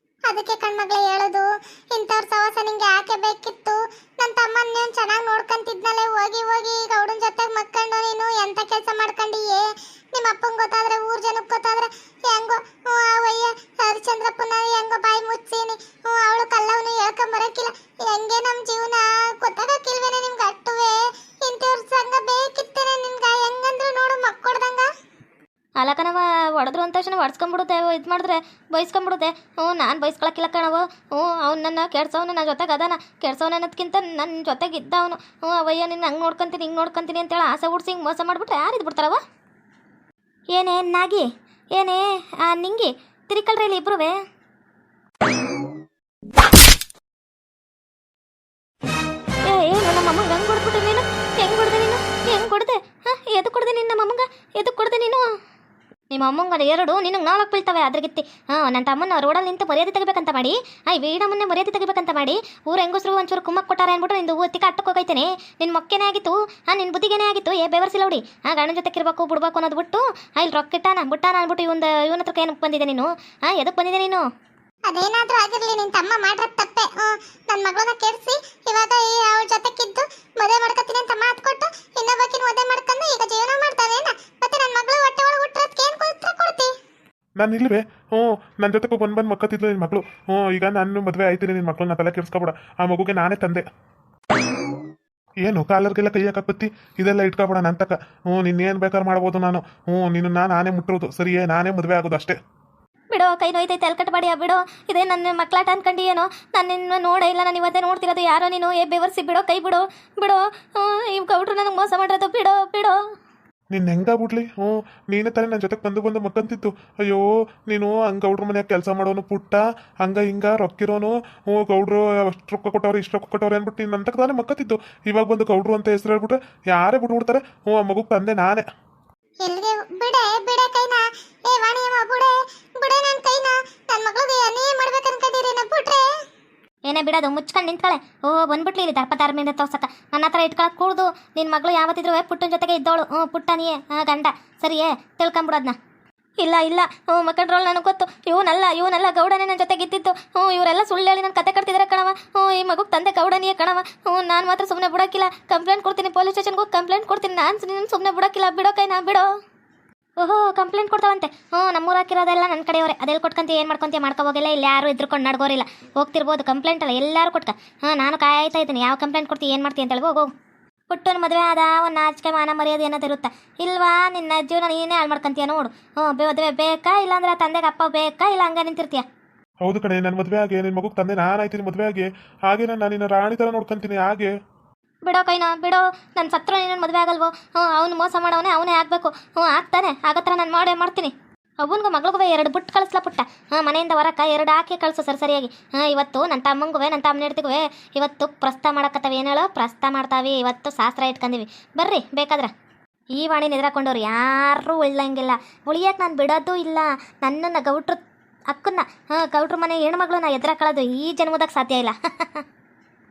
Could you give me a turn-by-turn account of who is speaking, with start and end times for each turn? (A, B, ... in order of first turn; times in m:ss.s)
0:00.3-0:24.9 A
0:25.8-0:39.2 B
0:40.5-0:44.1 B
0:49.4-0:55.3 B
0:56.1-1:14.2 B
1:14.9-1:26.7 A
1:27.4-1:33.6 C
1:35.4-1:42.4 C
1:43.1-1:53.0 B
1:53.7-2:08.6 C
2:09.4-2:16.1 A
2:16.9-2:25.8 B
2:26.4-2:39.3 B
2:40.2-2:50.3 B
2:50.9-2:59.0 B
2:59.6-3:04.3 C
3:05.0-3:22.5 B
3:23.2-3:32.4 B